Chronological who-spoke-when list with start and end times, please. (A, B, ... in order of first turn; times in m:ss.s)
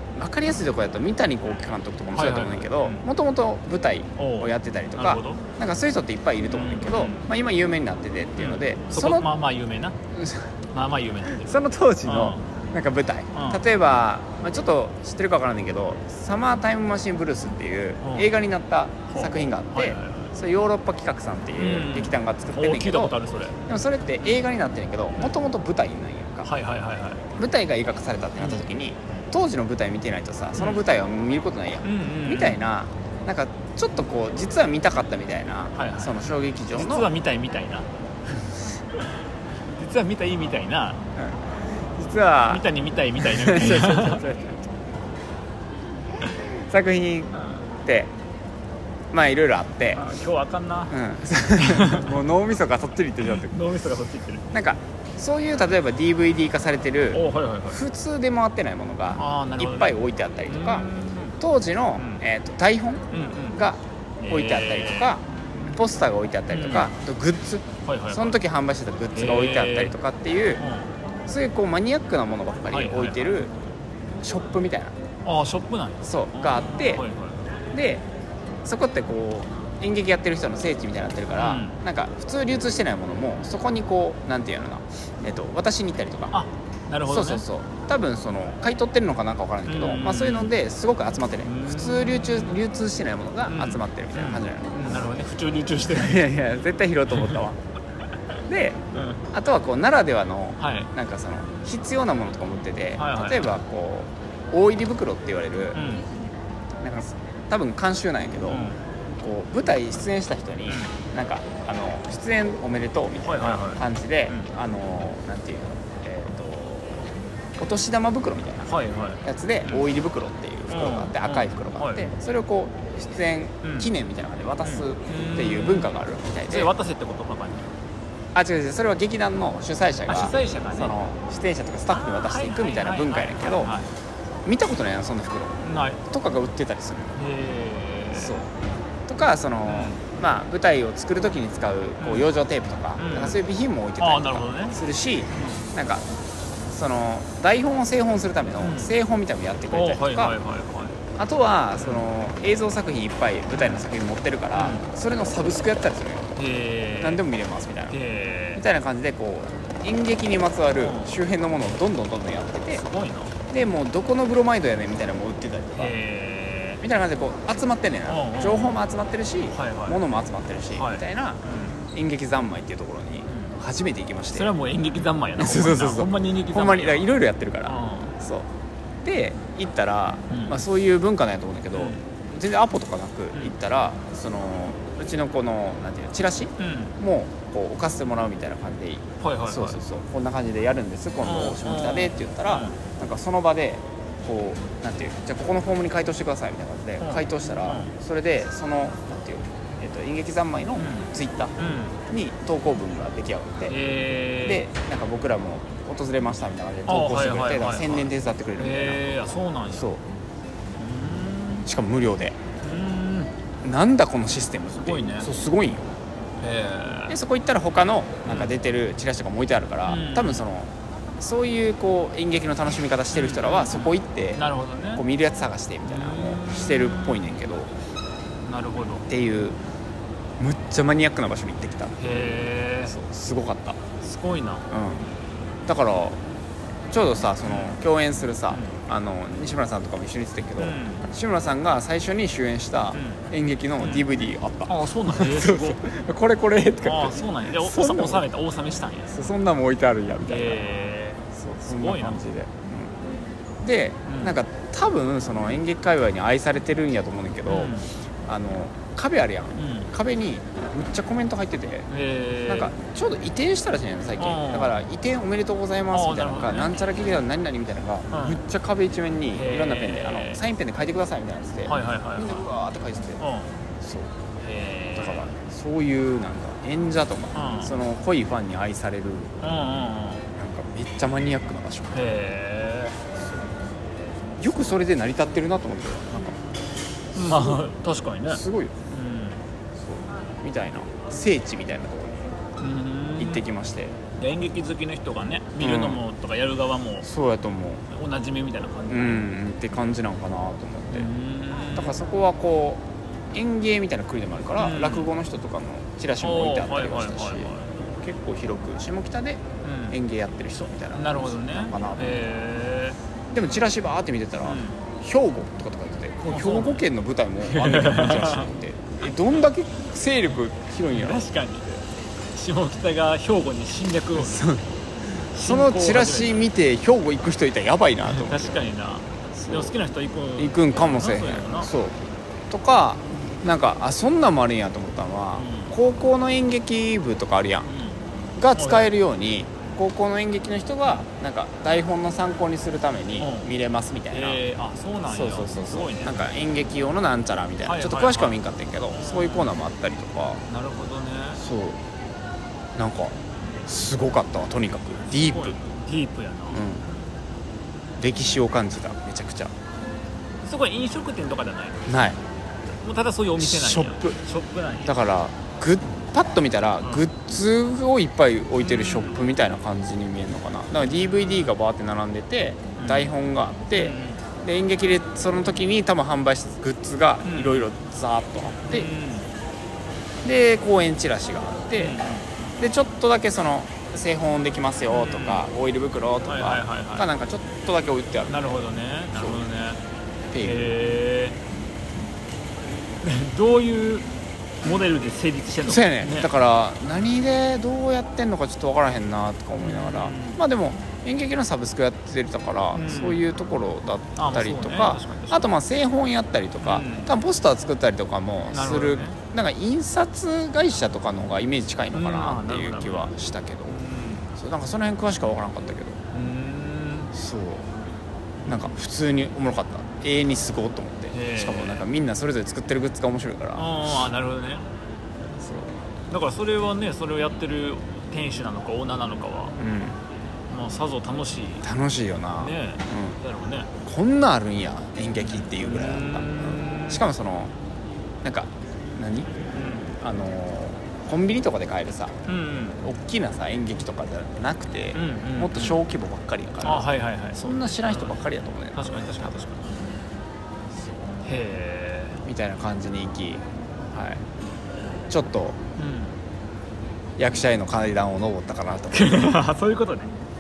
0:00.2-0:09.3 A
0:02.2-0:03.0 B
0:04.2-0:05.4 B
0:06.5-0:07.2 B
0:08.4-0:10.0 B
0:10.1-0:10.5 A
0:10.7-0:11.6 B
0:11.4-0:23.2 A
0:12.1-0:12.4 B
0:13.3-0:13.6 B
0:18.0-0:18.3 B
0:19.1-0:20.3 B
0:21.6-0:23.6 B
0:23.7-0:26.5 A
0:26.4-0:27.2 B
0:27.4-0:37.1 A
0:30.6-0:30.8 B
0:31.8-0:32.6 B
0:35.8-0:37.9 B
0:39.8-0:41.0 B
0:41.2-0:42.7 A
0:42.5-0:44.2 B
0:43.2-0:44.8 A
0:46.6-0:47.3 A
0:47.8-0:48.1 A
0:49.1-0:50.0 A
0:50.0-0:51.0 B
0:50.9-0:53.6 A
0:51.6-0:52.1 B
0:53.3-0:54.5 B
0:54.5-1:00.9 A
0:57.1-0:57.8 B
0:59.2-1:01.4 B
1:01.4-1:10.6 A
1:02.0-1:02.2 B
1:03.1-1:03.6 B
1:04.2-1:05.1 B
1:06.5-1:06.9 B
1:07.8-1:08.4 B
1:09.1-1:09.9 B
1:10.6-1:10.9 B
1:11.3-1:13.5 A
1:12.7-1:13.4 B
1:14.2-1:15.0 A
1:15.2-1:17.4 B
1:16.0-1:17.0 A
1:17.7-1:18.0 A
1:18.6-1:26.3 A
1:21.4-1:21.8 B
1:26.3-1:27.4 B
1:27.1-1:35.0 A
1:29.7-1:30.5 B
1:31.4-1:32.6 B
1:33.5-1:36.3 B
1:35.9-1:37.6 A
1:37.1-1:37.4 B
1:38.5-1:45.8 A
1:38.9-1:39.2 B
1:40.6-1:40.9 B
1:43.0-1:43.6 B
1:45.7-1:46.1 B
1:46.8-1:48.6 A
1:48.5-1:48.8 B
1:49.2-1:57.0 A
1:53.2-1:54.5 B
1:57.6-1:58.7 A
1:58.7-1:59.9 B
1:59.2-2:06.7 A
2:00.7-2:02.1 B
2:03.6-2:03.9 B
2:04.6-2:05.9 B
2:06.5-2:07.7 B
2:08.3-2:13.7 A
2:10.1-2:11.0 B
2:11.9-2:13.9 B
2:14.4-2:17.1 A
2:15.6-2:16.0 B
2:17.2-2:18.4 B
2:18.1-2:18.5 A
2:19.1-2:26.0 A
2:19.7-2:20.0 B
2:22.0-2:22.3 B
2:23.0-2:23.4 B
2:24.0-2:24.8 B
2:25.4-2:25.6 B
2:26.7-2:30.4 A
2:28.6-2:28.9 B
2:29.7-2:31.0 B
2:31.2-2:36.3 A
2:31.8-2:32.1 B
2:33.5-2:33.9 B
2:34.6-2:34.9 B
2:36.4-2:37.2 B
2:37.0-2:38.0 A
2:37.9-2:38.6 B
2:38.6-2:42.8 A
2:40.8-2:41.1 B
2:42.7-2:43.3 B
2:43.5-2:46.0 A
2:45.8-2:46.8 B
2:46.8-2:54.5 A
2:48.1-2:48.8 B
2:49.5-2:50.0 B
2:50.7-2:51.8 B
2:53.3-2:53.5 B
2:54.3-2:57.1 B
2:55.4-2:58.5 A
2:57.7-2:58.2 B
2:59.0-3:21.6 A
3:00.3-3:00.6 B
3:01.8-3:02.0 B
3:06.6-3:07.0 B
3:09.2-3:09.8 B
3:11.2-3:12.8 B
3:17.0-3:17.9 B
3:20.8-3:22.0 B
3:22.1-3:23.8 A
3:23.7-3:24.7 B
3:24.4-3:30.0 A
3:26.9-3:29.9 B
3:30.8-3:31.7 B
3:31.7-3:32.4 A
3:32.6-3:33.3 B
3:33.6-3:35.9 A
3:34.7-3:35.3 B
3:36.4-3:37.2 B
3:37.1-3:44.4 A
3:38.2-3:38.6 B
3:39.9-3:40.4 B
3:43.1-3:45.0 B
3:45.0-3:47.7 A
3:45.8-3:47.4 B
3:48.4-3:49.1 B
3:49.1-3:49.6 A
3:50.4-3:52.0 A
3:52.0-3:53.0 B
3:52.9-3:53.8 A
3:54.0-3:54.7 B
3:54.7-3:55.1 A
3:55.7-3:56.2 A
3:56.9-4:08.3 A
3:57.4-3:57.8 B
3:58.5-3:58.8 B
4:00.6-4:01.1 B
4:02.9-4:03.2 B
4:03.8-4:04.1 B
4:04.7-4:05.8 B
4:06.8-4:09.1 B
4:09.1-4:10.6 A
4:10.3-4:12.2 B
4:11.3-4:13.0 A
4:13.6-4:21.9 A
4:14.1-4:14.4 B
4:17.5-4:17.9 B
4:19.6-4:19.9 B
4:21.9-4:22.7 B
4:22.5-4:33.2 A
4:24.2-4:24.8 B
4:25.9-4:26.8 B
4:28.1-4:28.4 B
4:29.3-4:30.4 B
4:31.7-4:32.5 B
4:33.2-4:33.6 B
4:33.8-4:34.1 A
4:34.4-4:35.3 B
4:35.0-4:39.4 A
4:37.3-4:37.7 B
4:39.4-4:40.2 B
4:40.4-4:42.1 A
4:41.9-4:43.0 B
4:44.4-4:46.4 A
4:47.1-4:47.7 A
4:47.1-4:49.4 B
4:48.3-4:48.8 A
4:49.8-4:52.2 A
4:52.6-4:53.4 B
4:53.2-4:54.0 A
4:54.2-4:57.1 B
4:55.6-4:56.0 A
4:57.0-4:57.8 A
4:57.9-4:59.2 B
4:58.9-5:01.1 A
5:00.9-5:02.0 B
5:01.7-5:12.2 A
5:04.6-5:05.1 B
5:06.2-5:07.7 B
5:09.6-5:10.0 B
5:10.9-5:13.0 B
5:13.3-5:21.3 A
5:14.4-5:14.8 B
5:16.2-5:16.8 B
5:17.4-5:18.5 B
5:20.9-5:21.8 B
5:22.4-5:24.5 B
5:24.2-5:24.7 A
5:25.3-5:26.4 B
5:25.3-5:28.6 A
5:28.1-5:31.7 B
5:29.4-5:29.7 A
5:30.4-5:32.0 A
5:32.5-5:37.7 A
5:35.4-5:35.7 B
5:37.7-5:38.0 B
5:38.4-5:44.4 A
5:38.6-5:38.9 B
5:43.2-5:43.5 B
5:44.1-5:46.2 B
5:45.1-5:50.4 A
5:47.6-5:48.4 B
5:48.9-5:49.6 B
5:50.5-5:51.4 B
5:51.4-5:51.8 A
5:52.8-5:53.1 A
5:53.7-5:55.6 A
5:55.1-5:56.6 B
5:56.5-5:56.8 A
5:58.0-5:59.5 A
6:00.4-6:01.8 B
6:01.9-6:02.2 A
6:02.8-6:05.0 B
6:03.4-6:04.2 A
6:04.8-6:18.9 A
6:08.6-6:09.2 B
6:11.2-6:11.5 B
6:12.8-6:13.1 B
6:13.7-6:14.2 B
6:17.2-6:17.7 B
6:18.6-6:19.3 B
6:20.2-6:22.0 A
6:21.8-6:22.3 B
6:22.6-6:29.5 A
6:24.9-6:25.5 B
6:26.3-6:27.1 B
6:28.3-6:29.8 B
6:30.3-6:30.8 A
6:30.4-6:31.4 B
6:33.0-6:34.1 B
6:34.6-6:36.3 B
6:35.6-6:53.8 A
6:39.6-6:40.4 B
6:42.7-6:43.2 B
6:44.2-6:45.5 B
6:46.6-6:47.1 B
6:48.5-6:49.2 B
6:51.9-6:53.1 B
6:53.7-6:54.3 B
6:54.4-6:56.0 A
6:56.1-6:57.1 B
6:57.1-6:57.7 A
6:58.5-7:03.8 A
7:01.1-7:01.8 B
7:03.6-7:04.6 B
7:05.4-7:05.7 A
7:06.1-7:09.6 B
7:09.6-7:10.0 A
7:10.5-7:11.7 B
7:11.6-7:13.2 A
7:12.4-7:13.7 B
7:13.8-7:17.5 A
7:15.2-7:17.0 B
7:18.2-7:19.4 A
7:19.5-7:19.9 B
7:20.0-7:22.2 A
7:22.3-7:22.8 B
7:22.8-7:29.3 A
7:24.9-7:25.8 B
7:26.6-7:28.2 B
7:28.7-7:29.7 B
7:31.2-7:32.2 B
7:32.2-7:33.4 A
7:33.9-7:34.2 A
7:35.1-7:35.6 A
7:35.8-7:36.2 B
7:37.2-7:39.4 A
7:38.9-7:40.1 B